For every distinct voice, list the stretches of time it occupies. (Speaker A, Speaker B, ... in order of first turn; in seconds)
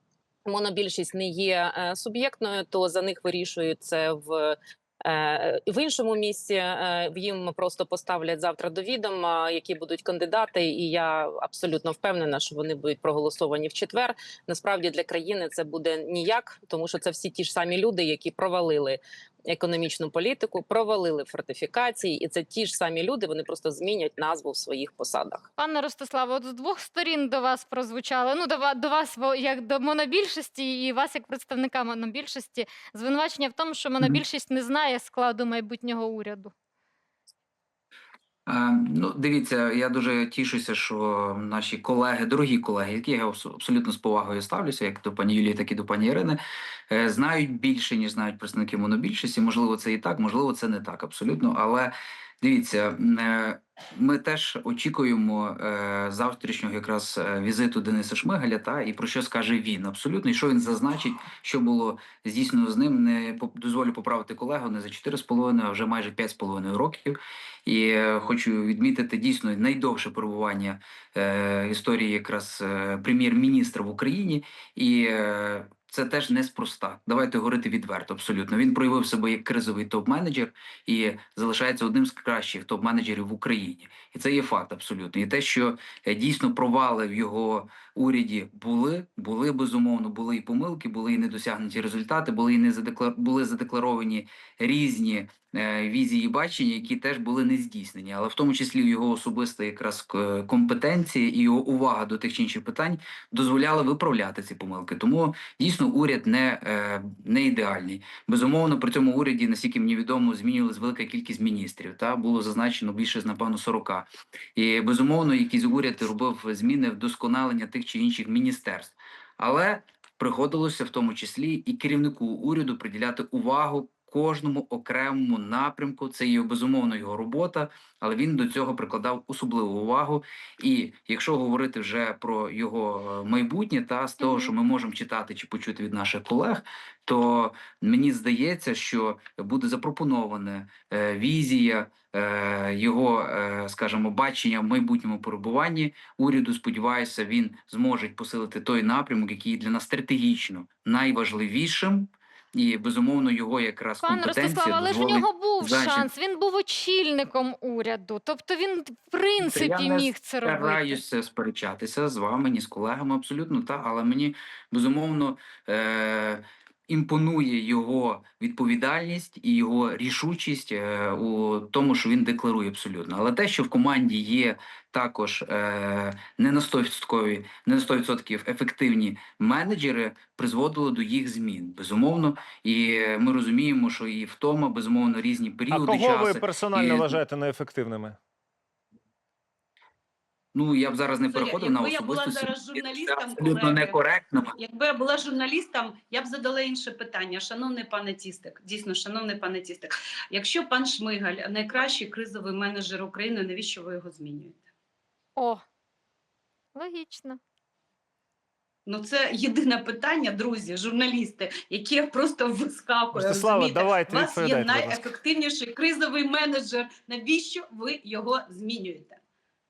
Speaker A: 0.5-25.5
Speaker B: 25.6-36.5, 134.2-134.5, 154.0-161.0, 205.3-205.6, 206.7-207.4
Speaker C: 38.5-156.1, 159.4-187.2, 190.5-194.5
Speaker D: 185.7-188.2, 213.1-215.0
Speaker E: 191.2-194.0, 194.6-204.6, 208.8-219.2